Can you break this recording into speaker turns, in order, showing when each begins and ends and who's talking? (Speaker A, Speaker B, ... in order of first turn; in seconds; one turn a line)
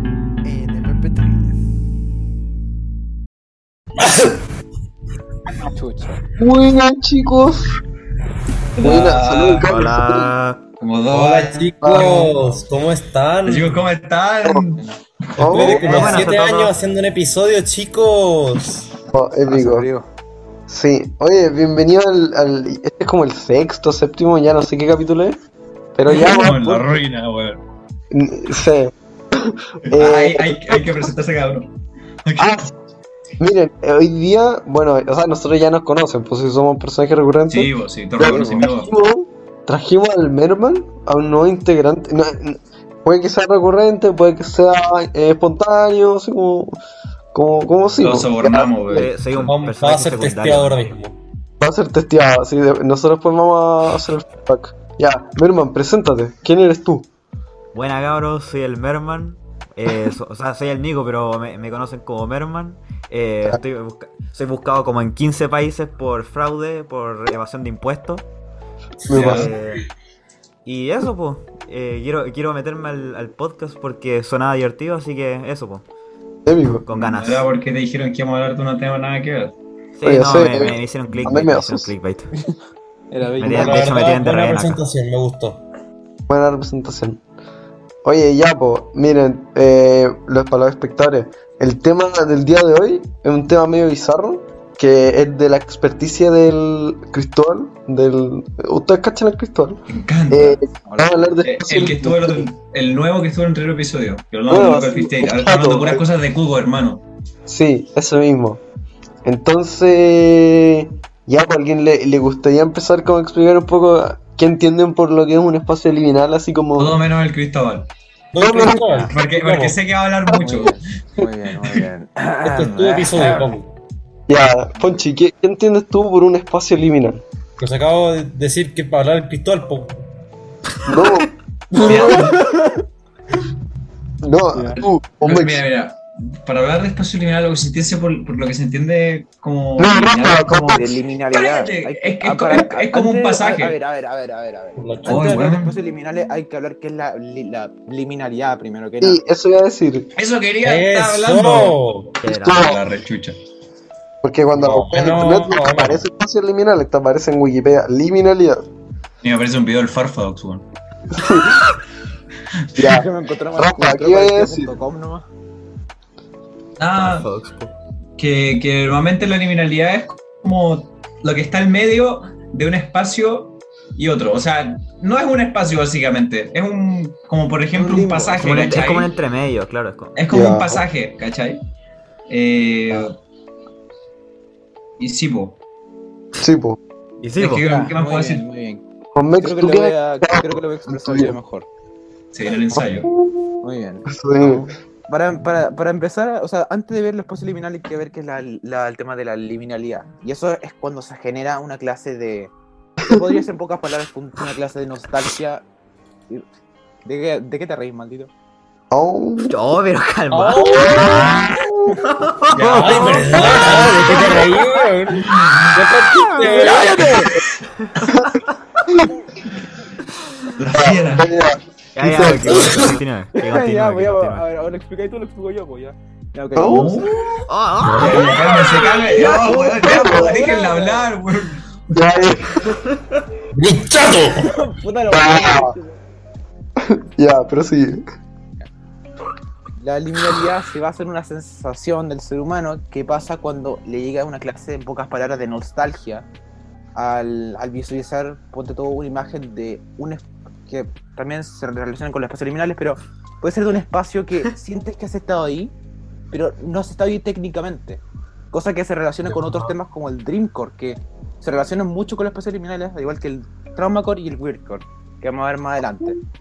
Speaker A: 0.4-1.6
Speaker B: 4.1-4.3
Speaker A: 5.6-6.2
Speaker C: 6.4-7.6
Speaker D: 8.8-9.7
Speaker C: 8.8-10.3
Speaker E: 9.6-10.6
Speaker D: 10.8-12.6
Speaker B: 11.1-13.8
Speaker C: 11.8-12.3
Speaker D: 13.4-16.3
Speaker C: 15.4-16.0
Speaker B: 15.4-18.9
Speaker E: 15.5-16.7
Speaker A: 16.0-16.2
Speaker C: 19.1-19.9
Speaker A: 19.4-20.1
Speaker C: 20.7-25.4
Speaker C: 25.9-27.0
Speaker D: 26.0-27.6
Speaker C: 28.1-31.1
Speaker D: 29.9-31.7
Speaker D: 32.2-32.7
Speaker C: 32.4-32.7
Speaker C: 33.4-46.8
Speaker D: 37.5-38.9
Speaker C: 47.3-49.1
Speaker D: 48.0-49.6
Speaker E: 48.9-51.0
Speaker B: 49.5-51.2
Speaker C: 51.6-57.1
Speaker E: 57.7-68.2
Speaker C: 69.1-69.5
Speaker D: 69.1-69.5
Speaker E: 69.1-69.8
Speaker E: 70.6-75.8
Speaker C: 76.5-76.9
Speaker E: 76.8-77.5
Speaker D: 77.0-79.5
Speaker E: 80.0-82.3
Speaker C: 80.0-81.9
Speaker A: 83.1-84.1
Speaker E: 83.4-84.8
Speaker B: 83.4-85.6
Speaker C: 86.3-87.2
Speaker C: 88.0-102.5
Speaker D: 99.9-100.6
Speaker A: 100.8-101.4
Speaker D: 101.4-107.0
Speaker C: 104.5-106.0
Speaker C: 107.5-108.6
Speaker C: 109.2-117.0
Speaker D: 116.8-117.9
Speaker B: 118.3-119.8
Speaker C: 118.4-119.1
Speaker D: 119.1-120.8
Speaker A: 120.3-123.5
Speaker B: 122.4-123.7
Speaker D: 123.1-123.5
Speaker C: 124.3-127.2
Speaker B: 127.6-130.0
Speaker C: 130.8-132.3
Speaker D: 131.7-132.4
Speaker A: 131.7-132.8
Speaker C: 134.2-135.6
Speaker D: 134.8-143.8
Speaker C: 139.8-140.9
Speaker A: 140.4-149.2
Speaker B: 144.8-145.4
Speaker D: 145.1-145.7
Speaker C: 149.0-150.1
Speaker D: 150.1-151.8
Speaker B: 150.6-152.2
Speaker E: 152.2-152.8
Speaker D: 152.3-153.4
Speaker C: 152.3-152.8
Speaker C: 154.2-158.7
Speaker B: 154.5-156.0
Speaker D: 159.2-160.6
Speaker C: 161.1-161.5
Speaker D: 161.2-161.5
Speaker C: 162.8-164.7
Speaker A: 162.8-165.2
Speaker D: 166.8-167.3
Speaker E: 167.0-167.7
Speaker D: 168.2-179.1
Speaker A: 177.7-178.8
Speaker E: 178.4-180.2
Speaker D: 180.2-181.6
Speaker C: 180.3-180.8
Speaker D: 182.3-183.1
Speaker D: 185.0-185.6
Speaker C: 186.4-186.8
Speaker E: 187.2-187.6
Speaker D: 187.4-188.4
Speaker A: 187.6-188.8
Speaker C: 189.1-191.3
Speaker A: 189.4-191.7
Speaker D: 192.3-193.1
Speaker C: 192.7-193.5
Speaker A: 193.6-202.5
Speaker C: 194.1-194.7
Speaker A: 203.0-205.6
Speaker A: 207.0-208.3
Speaker C: 208.9-209.5
Speaker E: 209.4-214.5
Speaker B: 210.3-211.5
Speaker A: 210.6-211.3
Speaker D: 212.5-214.3
Speaker B: 212.7-217.3
Speaker A: 214.0-214.5
Speaker D: 215.2-215.9
Speaker A: 216.3-217.4
Speaker E: 217.8-218.8
Speaker D: 220.6-221.3
Speaker C: 220.8-223.0
Speaker E: 221.9-224.4
Speaker A: 223.3-227.4
Speaker C: 226.6-227.0
Speaker D: 226.6-227.1
Speaker E: 227.5-229.6
Speaker B: 227.8-228.1
Speaker D: 227.9-232.4
Speaker A: 228.1-231.1
Speaker C: 229.2-230.4
Speaker C: 231.9-232.6
Speaker B: 233.5-234.5
Speaker A: 234.3-236.0
Speaker C: 235.1-235.7
Speaker C: 236.8-238.0
Speaker A: 239.8-246.3
Speaker A: 246.9-255.7
Speaker A: 256.3-266.2